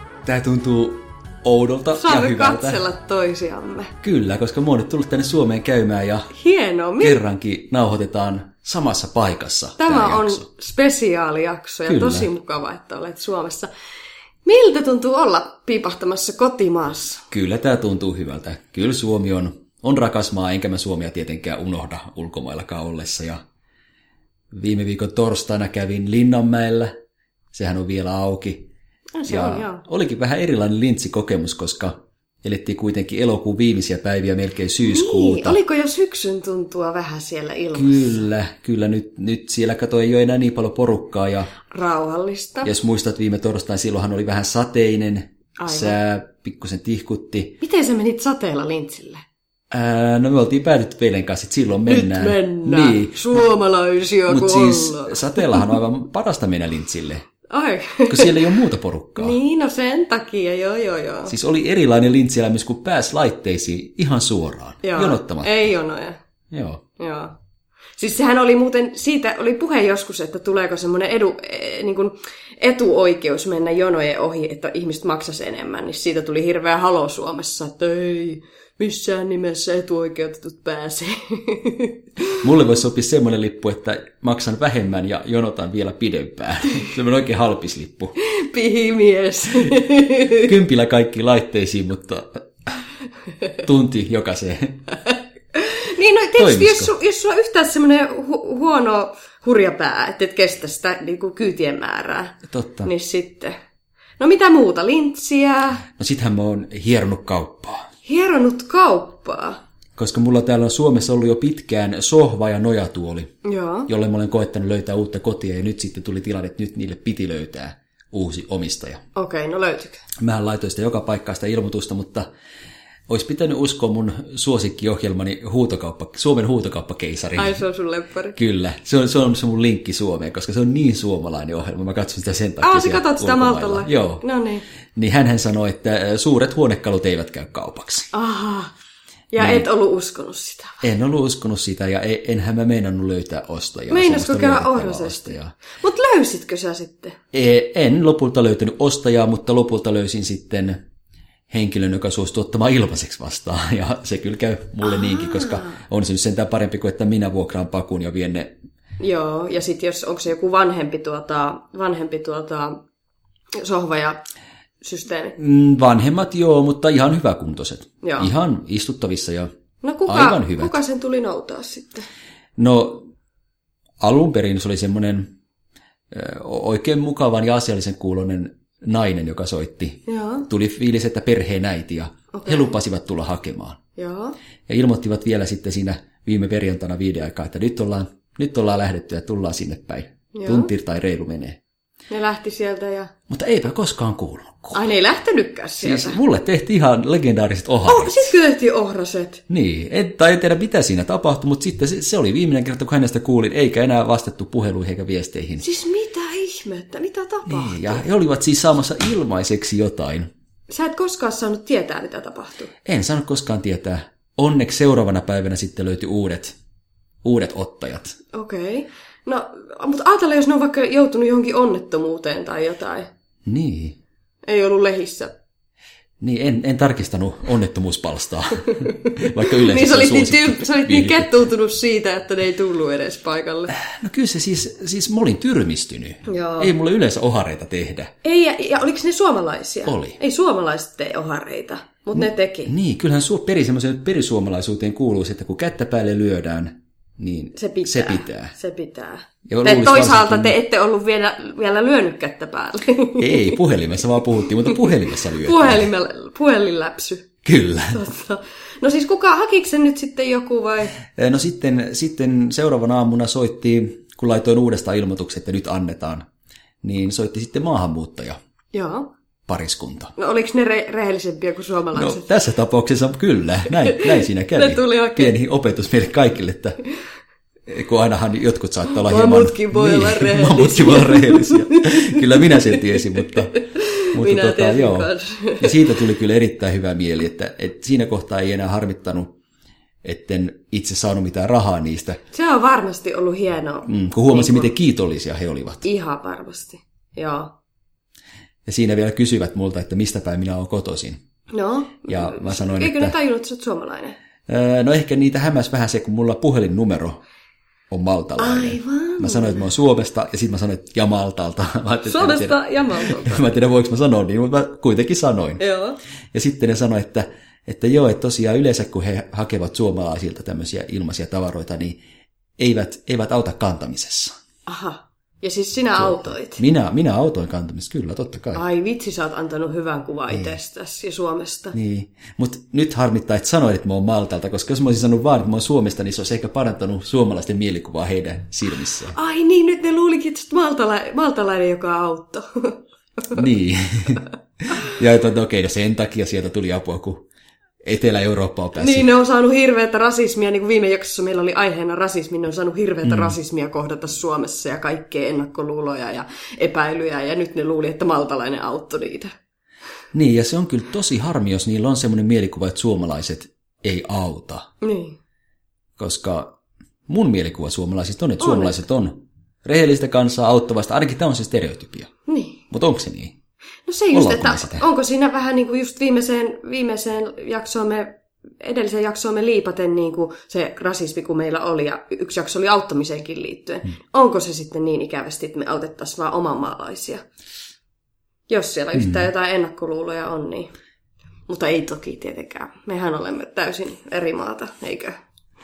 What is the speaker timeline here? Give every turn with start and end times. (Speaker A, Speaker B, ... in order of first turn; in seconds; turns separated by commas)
Speaker A: 0.2-2.8, Speaker B: 1.9-3.9, Speaker A: 4.0-6.3, Speaker B: 6.3-7.2, Speaker A: 7.0-10.4, Speaker B: 9.8-13.7, Speaker A: 11.9-12.3, Speaker B: 14.4-17.3, Speaker A: 17.3-23.4, Speaker A: 24.5-26.9, Speaker A: 27.5-28.7, Speaker B: 29.2-29.8, Speaker A: 29.3-35.6, Speaker B: 34.8-38.2, Speaker A: 37.7-41.5, Speaker B: 41.7-42.7, Speaker A: 42.6-47.5, Speaker B: 45.6-45.9, Speaker B: 47.6-49.2, Speaker A: 49.7-53.5, Speaker B: 51.9-55.8, Speaker A: 54.3-57.2, Speaker B: 57.5-58.5, Speaker A: 58.1-59.4, Speaker B: 59.2-61.3, Speaker A: 61.3-65.7, Speaker B: 64.8-66.2, Speaker A: 66.5-66.8, Speaker B: 67.0-67.4, Speaker B: 68.0-82.4, Speaker A: 82.4-88.1, Speaker B: 88.2-90.5, Speaker A: 90.3-92.7, Speaker A: 93.6-94.9, Speaker B: 95.0-103.5, Speaker A: 96.4-96.9, Speaker A: 102.5-102.9, Speaker B: 104.2-105.8, Speaker A: 105.9-107.9, Speaker B: 108.0-109.6, Speaker A: 110.0-113.3, Speaker B: 113.4-113.9, Speaker A: 113.9-119.0, Speaker B: 119.1-120.0, Speaker A: 120.2-122.3, Speaker A: 123.1-127.6, Speaker B: 127.3-128.4, Speaker A: 128.3-134.2, Speaker B: 132.6-134.6, Speaker A: 134.9-138.1, Speaker B: 138.1-138.7, Speaker B: 139.3-140.8, Speaker A: 139.4-139.7, Speaker A: 140.8-145.5, Speaker B: 143.9-147.2, Speaker A: 147.3-150.8, Speaker A: 151.5-158.5, Speaker B: 154.8-155.8, Speaker B: 159.0-162.8, Speaker B: 163.5-164.2, Speaker B: 164.8-165.4, Speaker A: 165.3-169.5, Speaker B: 168.0-168.3, Speaker B: 169.8-172.0, Speaker A: 170.1-170.8, Speaker A: 172.6-173.1, Speaker A: 174.0-175.3, Speaker A: 176.1-183.8, Speaker B: 180.1-180.5, Speaker B: 182.3-182.7, Speaker B: 184.0-184.3, Speaker A: 184.7-191.6, Speaker B: 190.3-190.7, Speaker B: 192.1-193.1, Speaker A: 193.3-194.9, Speaker B: 194.7-196.2, Speaker A: 195.8-198.3, Speaker B: 197.9-199.4, Speaker A: 199.5-205.6, Speaker B: 205.6-208.0, Speaker A: 207.4-210.3, Speaker B: 210.7-212.7, Speaker A: 212.8-216.5, Speaker A: 217.2-218.2, Speaker B: 218.3-223.1, Speaker A: 223.4-224.0, Speaker B: 224.4-225.3, Speaker A: 226.2-231.4, Speaker B: 228.8-233.8, Speaker A: 233.7-238.1, Speaker B: 236.3-236.7, Speaker B: 238.2-242.7, Speaker A: 239.8-240.2, Speaker A: 242.1-248.5, Speaker B: 247.5-253.6, Speaker A: 249.5-250.5, Speaker A: 253.2-255.9, Speaker B: 254.6-257.3, Speaker A: 257.4-258.0, Speaker B: 257.9-261.0, Speaker A: 261.1-266.3, Speaker A: 266.8-268.4, Speaker B: 268.7-269.1, Speaker A: 269.5-270.1, Speaker B: 270.2-272.2, Speaker A: 271.9-276.8, Speaker B: 273.8-275.3, Speaker A: 277.7-289.4, Speaker B: 278.9-286.0, Speaker A: 290.0-292.2, Speaker B: 292.3-294.7, Speaker A: 293.9-295.8, Speaker B: 295.8-297.5, Speaker A: 298.6-301.2, Speaker B: 301.5-304.1, Speaker A: 302.1-303.1, Speaker A: 304.5-307.2, Speaker A: 307.9-315.6, Speaker B: 308.4-309.7, Speaker B: 312.1-313.5, Speaker B: 315.6-316.0, Speaker A: 316.3-322.0, Speaker A: 322.6-324.3, Speaker B: 324.7-326.6, Speaker A: 325.9-328.6, Speaker B: 328.5-331.8, Speaker A: 330.3-330.6, Speaker A: 331.7-339.1, Speaker B: 339.1-343.4, Speaker A: 343.3-347.2, Speaker A: 347.8-349.1, Speaker B: 348.8-359.3, Speaker A: 353.0-353.4, Speaker A: 360.1-364.7, Speaker B: 364.8-365.1, Speaker A: 366.0-366.5, Speaker A: 367.1-372.1, Speaker B: 368.4-368.8, Speaker B: 372.3-372.6, Speaker A: 372.7-373.4, Speaker B: 373.9-387.2, Speaker A: 374.1-374.8, Speaker B: 388.5-390.7, Speaker A: 388.9-389.2, Speaker B: 391.5-395.2